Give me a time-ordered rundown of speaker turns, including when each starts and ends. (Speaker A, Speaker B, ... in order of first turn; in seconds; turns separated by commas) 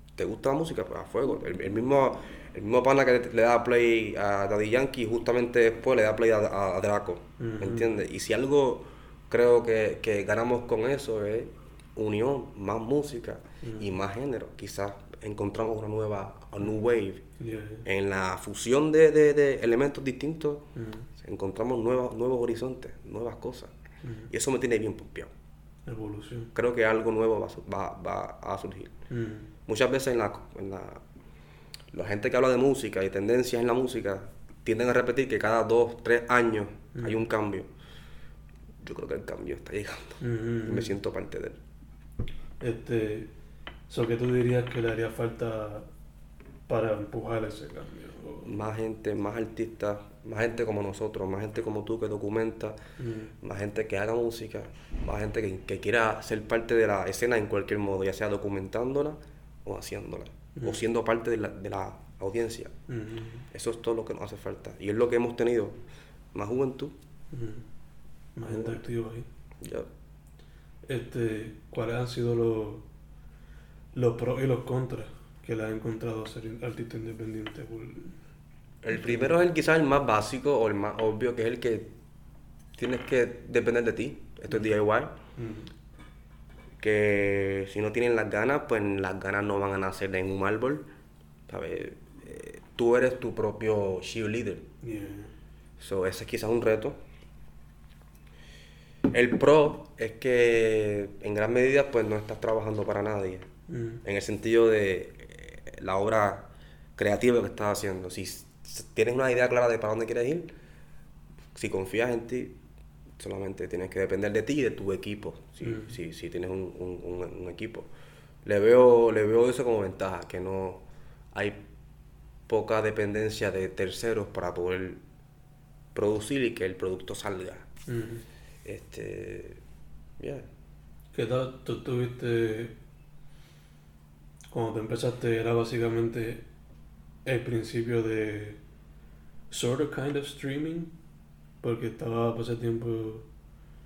Speaker A: 0.2-17.2, Speaker B: 7.4-8.0, Speaker B: 13.6-13.9, Speaker B: 17.4-17.9, Speaker A: 17.9-23.7, Speaker B: 20.8-21.1, Speaker B: 24.0-24.3, Speaker A: 24.3-25.3, Speaker B: 25.9-26.5, Speaker A: 26.5-28.9, Speaker B: 29.1-29.5, Speaker A: 29.7-31.0, Speaker A: 31.9-37.7, Speaker B: 37.0-37.2, Speaker A: 38.8-41.6, Speaker B: 40.2-41.0, Speaker B: 42.6-43.3, Speaker B: 43.9-45.9, Speaker B: 46.7-48.5, Speaker A: 48.4-52.8, Speaker B: 53.0-53.3, Speaker A: 53.4-62.7, Speaker B: 62.9-63.5, Speaker A: 63.5-65.8, Speaker A: 66.3-67.0, Speaker B: 67.3-67.7, Speaker B: 68.4-69.3, Speaker A: 68.5-68.8, Speaker A: 69.6-69.9, Speaker B: 70.9-72.8, Speaker B: 74.0-78.2, Speaker A: 78.8-81.9, Speaker B: 78.9-79.3, Speaker A: 82.8-85.1, Speaker B: 85.4-85.7, Speaker A: 86.8-90.8, Speaker A: 91.5-94.7, Speaker B: 94.8-95.3, Speaker A: 95.8-97.0, Speaker A: 99.1-103.5, Speaker B: 103.7-104.0, Speaker A: 104.0-110.5, Speaker A: 111.5-112.6, Speaker A: 113.2-117.9, Speaker B: 115.6-116.0, Speaker A: 118.5-121.6, Speaker A: 122.5-125.0, Speaker A: 125.9-127.7, Speaker B: 127.9-128.2, Speaker A: 128.7-129.6, Speaker A: 130.2-130.5, Speaker B: 131.1-132.8, Speaker B: 134.5-136.4, Speaker B: 137.3-138.6, Speaker B: 139.5-140.9, Speaker B: 141.6-143.3